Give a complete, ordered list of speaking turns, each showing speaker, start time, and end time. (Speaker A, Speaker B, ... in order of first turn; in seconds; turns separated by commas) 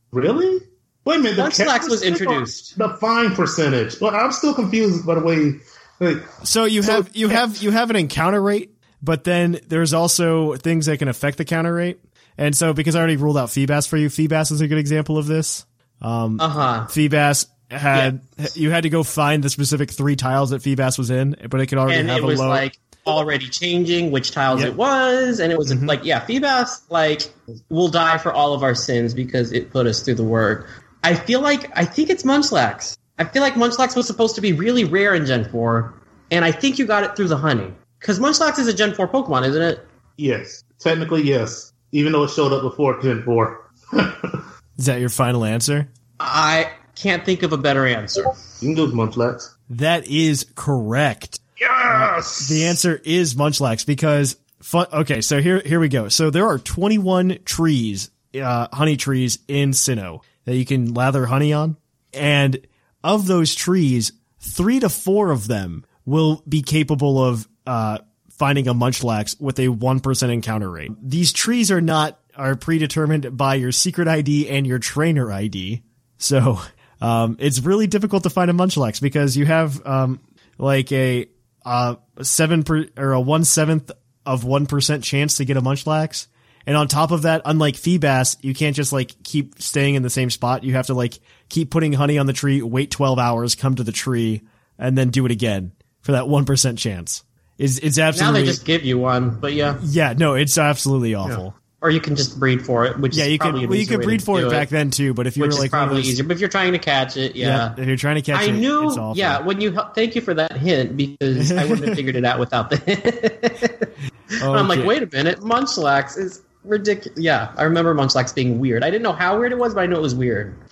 Speaker A: 0.1-7.4, Speaker B: 1.4-2.7, Speaker C: 6.4-22.7, Speaker B: 16.4-16.9, Speaker B: 21.9-39.8, Speaker C: 25.6-26.0, Speaker A: 40.2-44.4, Speaker C: 44.8-45.9, Speaker B: 46.2-48.4, Speaker A: 48.6-49.5, Speaker C: 49.7-98.6, Speaker A: 51.6-52.8, Speaker B: 98.1-99.8, Speaker C: 99.8-101.5, Speaker B: 101.2-104.7, Speaker C: 103.1-106.2, Speaker B: 105.4-107.8, Speaker C: 107.4-109.4, Speaker B: 108.3-113.9, Speaker C: 111.3-112.0, Speaker C: 114.4-114.9, Speaker B: 114.5-120.6